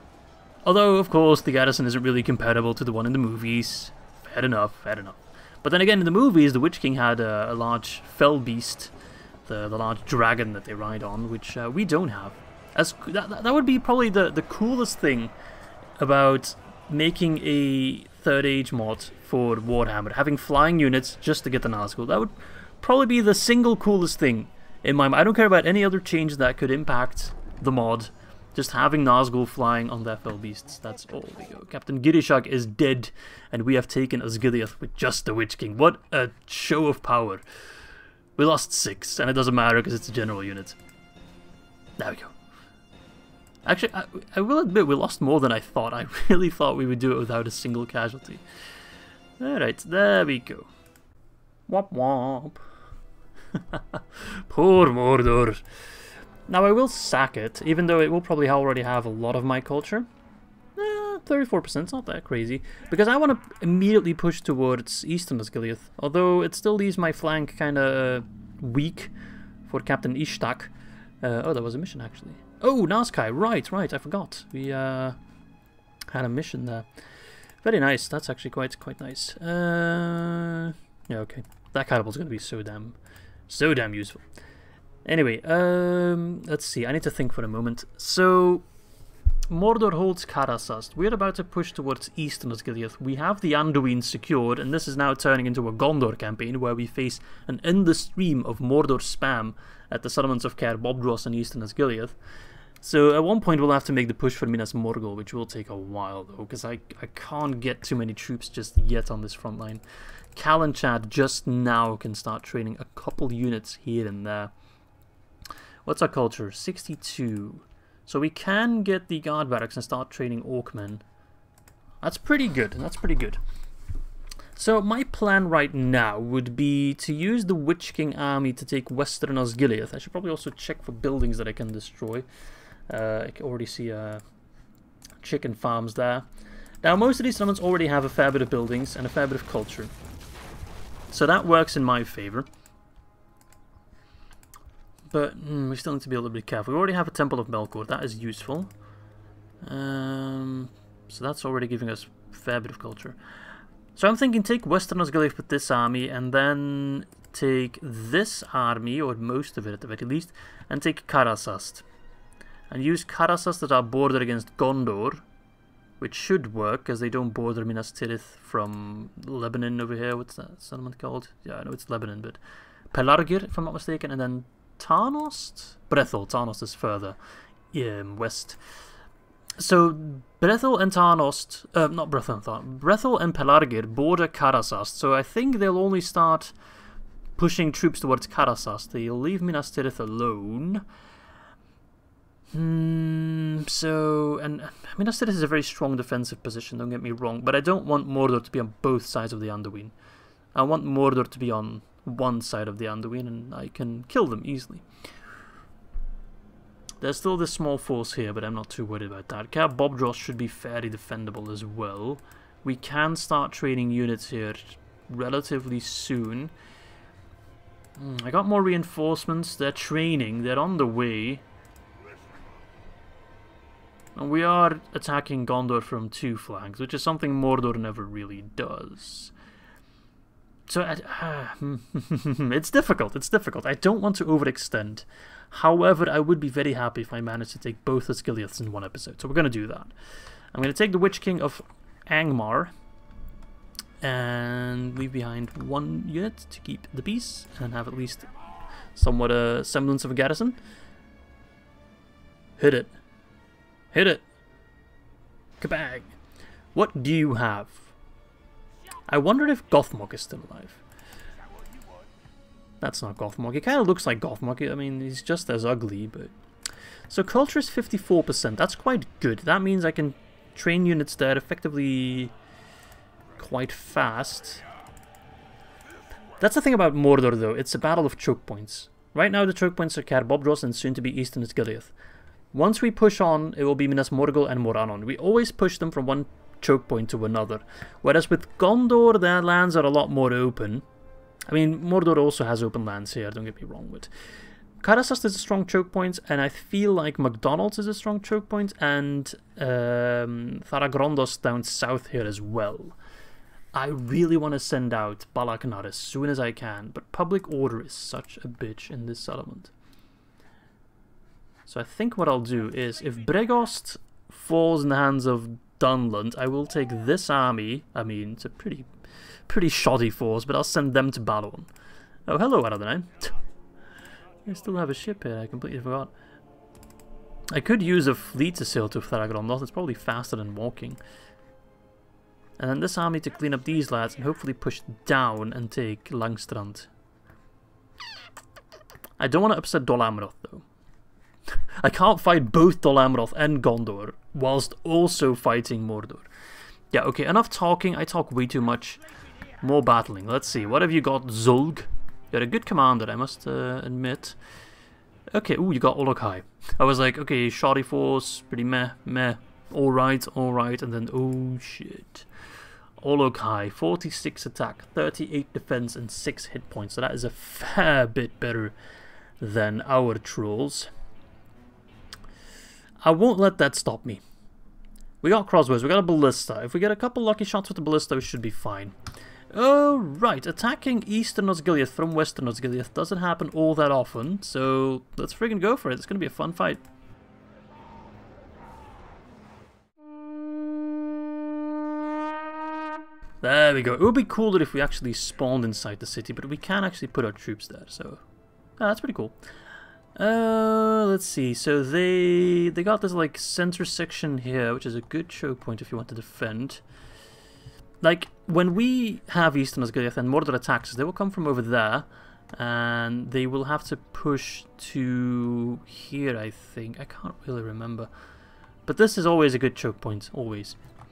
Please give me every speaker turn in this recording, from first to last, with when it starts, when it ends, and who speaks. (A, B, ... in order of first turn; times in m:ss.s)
0:00.6-0:08.9 A
0:09.5-0:15.3 A
0:16.0-0:37.4 A
0:38.4-0:40.8 A
0:42.0-0:42.3 A
0:43.6-0:48.4 A
0:49.4-0:50.7 A
0:51.7-0:52.6 A
0:53.6-0:55.6 A
0:56.5-1:00.1 A
1:00.8-1:09.1 A
1:09.7-1:15.2 A
1:16.1-1:16.9 A
1:17.6-1:23.0 A
1:23.5-1:24.2 A
1:25.0-1:28.6 A
1:29.5-1:42.2 A
1:42.8-1:49.8 A
1:50.4-1:54.5 A
1:55.8-2:01.0 A
2:02.0-2:03.4 A
2:04.6-2:12.3 A
2:12.9-2:14.2 A
2:15.2-2:16.2 A
2:16.8-2:19.9 A
2:21.1-2:22.5 A
2:25.1-2:28.7 A
2:29.6-2:33.2 A
2:34.0-2:41.8 A
2:42.7-2:45.2 A
2:46.0-2:52.4 A
2:52.9-2:57.2 A
2:57.7-2:58.6 A
2:59.6-3:06.5 A
3:07.4-3:10.8 A
3:12.5-3:19.9 A
3:20.6-3:24.8 A
3:27.0-3:36.5 A
3:38.0-3:41.4 A
3:44.2-3:49.3 A
3:50.7-3:59.9 A
4:00.5-4:02.7 A
4:04.0-4:08.3 A
4:09.0-4:10.6 A
4:12.6-4:12.9 A
4:13.9-4:14.2 A
4:15.6-4:16.2 A
4:16.7-4:17.9 A
4:19.1-4:20.8 A
4:22.8-4:26.3 A
4:27.1-4:32.3 A
4:33.4-4:34.6 A
4:36.4-4:41.9 A
4:42.5-4:50.8 A
4:51.5-4:54.1 A
4:54.8-5:03.0 A
5:03.7-5:09.7 A
5:11.7-5:18.9 A
5:19.5-5:21.7 A
5:22.3-5:23.4 A
5:24.4-5:26.1 A
5:27.5-5:31.0 A
5:32.6-5:36.9 A
5:39.2-5:40.6 A
5:41.8-5:46.3 A
5:46.9-5:49.0 A
5:49.6-5:54.4 A
5:55.3-6:02.3 A
6:03.0-6:08.8 A
6:09.4-6:10.9 A
6:13.0-6:14.2 A
6:15.2-6:19.0 A
6:19.5-6:26.8 A
6:33.4-6:38.2 A
6:38.8-6:39.4 A
6:40.2-6:46.8 A
6:48.0-6:58.1 A
6:58.9-7:00.8 A